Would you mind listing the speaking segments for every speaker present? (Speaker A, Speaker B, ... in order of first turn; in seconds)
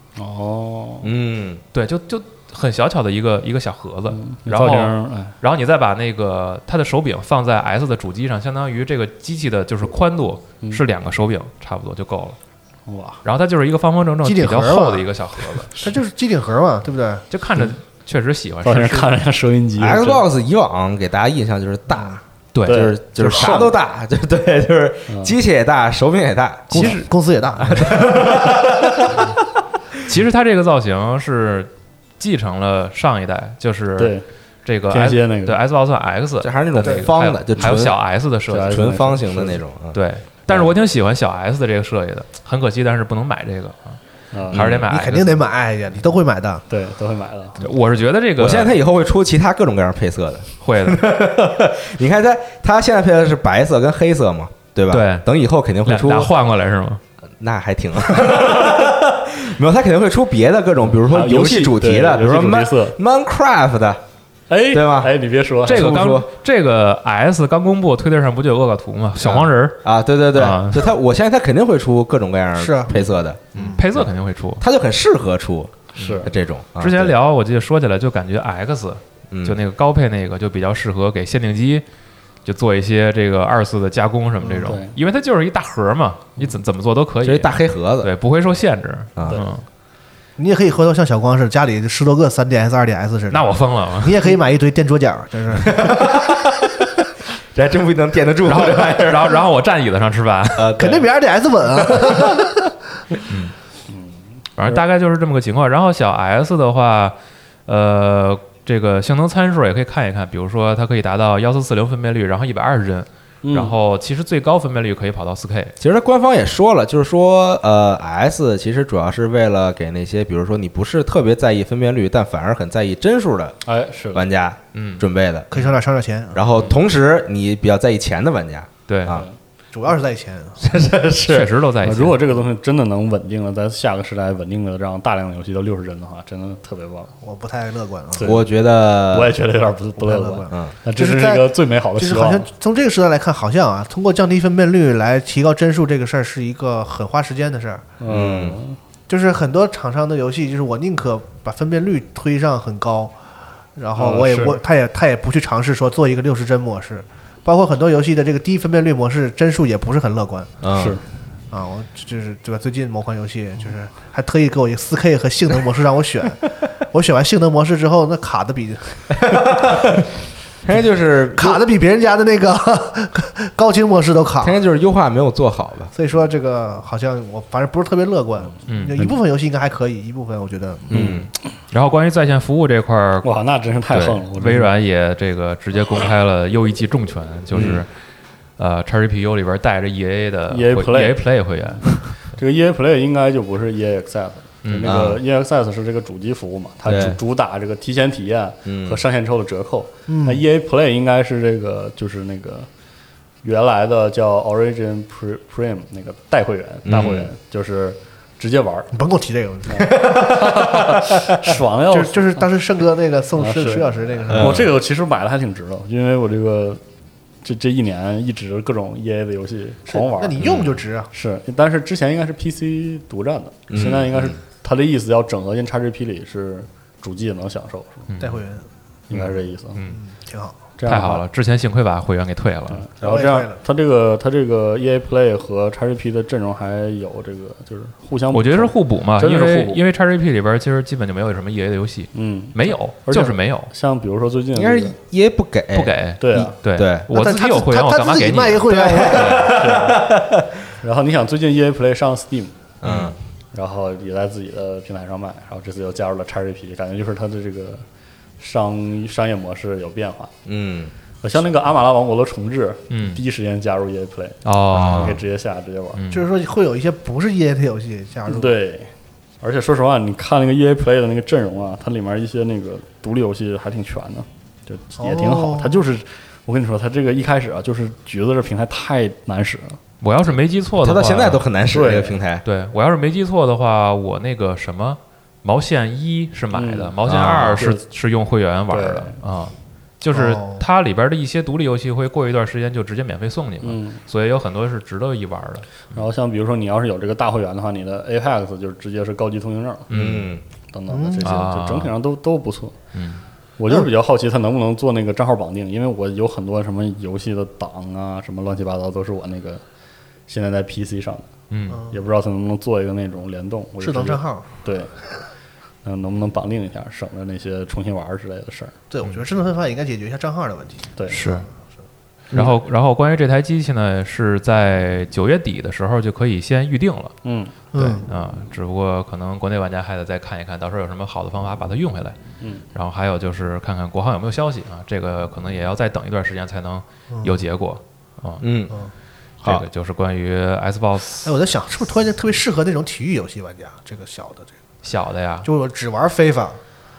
Speaker A: 0.2-1.1, 4.1-5.4, 12.9-13.2, 18.6-20.2, 22.6-23.8, 25.1-25.4, 34.0-34.2, 34.9-35.6, 38.5-39.6, 44.3-44.6, 46.7-47.6, 60.9-63.0, 64.5-66.1, 76.0-76.3, 84.5-85.0, 103.9-104.8, 113.4-113.7, 123.7-124.3, 130.8-137.1, 138.2-138.4, 139.1-142.5, 148.0-148.8, 154.0-154.6, 160.8-161.0, 180.9-181.2, 183.2-184.7, 190.5-191.2, 191.8-202.7, 203.4-208.9, 209.7-212.5, 213.4-216.8, 217.4-220.4, 221.1-228.1, 229.1-229.8, 230.8-231.2, 232.7-239.8, 242.1-245.0, 246.2-246.6, 249.3-250.1, 250.8-252.7, 253.5-257.8, 258.4-260.3, 261.2-266.0, 268.3-268.9, 269.4-279.8, 281.7-282.2, 286.5-287.8, 288.7-289.2, 293.6-294.0, 295.9-299.9, 300.7-302.8, 303.6-309.6, 310.3-311.3, 311.9-314.9, 315.9-318.8, 327.2-327.5
Speaker B: 1.0-1.6, 19.8-27.0, 27.6-29.4, 36.4-38.0, 38.7-40.0, 44.5-44.9, 48.4-56.3, 57.4-64.0, 64.7-65.1, 65.7-66.3, 69.2-77.1, 79.3-79.6, 87.2-88.1, 89.2-89.4, 95.6-96.7, 97.5-99.4, 100.6-101.1, 101.8-102.5, 115.8-123.6, 124.1-125.5, 126.3-129.3, 130.7-131.0, 138.2-139.3, 148.1-148.6, 160.6-161.0, 169.2-170.0, 170.6-171.6, 174.4-175.9, 180.9-181.3, 187.5-187.8, 194.8-195.2, 196.8-197.2, 198.7-199.0, 206.8-207.3, 214.3-214.7, 220.4-220.8, 223.7-224.4, 244.5-247.1, 248.7-250.5, 252.8-253.2, 260.4-260.9, 264.7-265.2, 280.8-282.4, 287.1-287.6, 299.9-300.4, 338.4-338.7
Speaker C: 1.7-12.4, 13.2-15.9, 17.3-19.1, 22.5-22.9, 26.7-27.0, 30.1-34.1, 34.6-39.0, 39.9-45.5, 47.6-48.8, 50.6-51.1, 54.9-55.3, 55.9-57.0, 65.7-69.8, 70.3-70.9, 73.6-74.6, 76.0-81.8, 82.5-89.6, 93.3-94.3, 98.5-100.7, 103.3-103.5, 104.6-107.2, 107.7-115.8, 124.7-125.7, 128.9-129.2, 131.2-132.2, 178.7-179.0, 181.7-183.3, 183.9-187.9, 188.6-192.0, 194.6-195.0, 228.1-228.4, 230.9-232.8, 238.3-243.7, 245.7-249.5, 252.8-253.1, 262.9-263.2, 264.4-265.2, 265.9-266.3, 280.0-281.4, 282.4-296.0, 299.9-300.3, 301.2-301.9, 302.9-303.2, 311.5-311.8, 321.1-321.5, 322.3-327.2, 327.8-332.2, 332.7-338.5, 339.4-341.3, 344.8-345.5
Speaker D: 14.2-17.2, 26.7-28.5, 44.9-46.6, 72.6-72.9, 90.4-96.2, 100.8-102.6, 125.5-126.5, 129.7-130.6, 137.2-138.4, 140.0-147.9, 149.1-153.2, 153.8-160.5, 161.5-169.8, 171.3-174.6, 175.9-181.0, 200.1-200.4, 208.9-210.4, 211.9-214.7, 219.9-221.1, 228.2-228.7, 229.9-230.6, 233.0-233.6, 247.1-249.6, 266.1-268.6, 275.0-275.8, 290.1-290.6, 300.9-301.3, 313.8-314.5, 318.9-321.4, 327.7-328.1, 337.1-337.4, 341.2-344.5, 345.4-346.6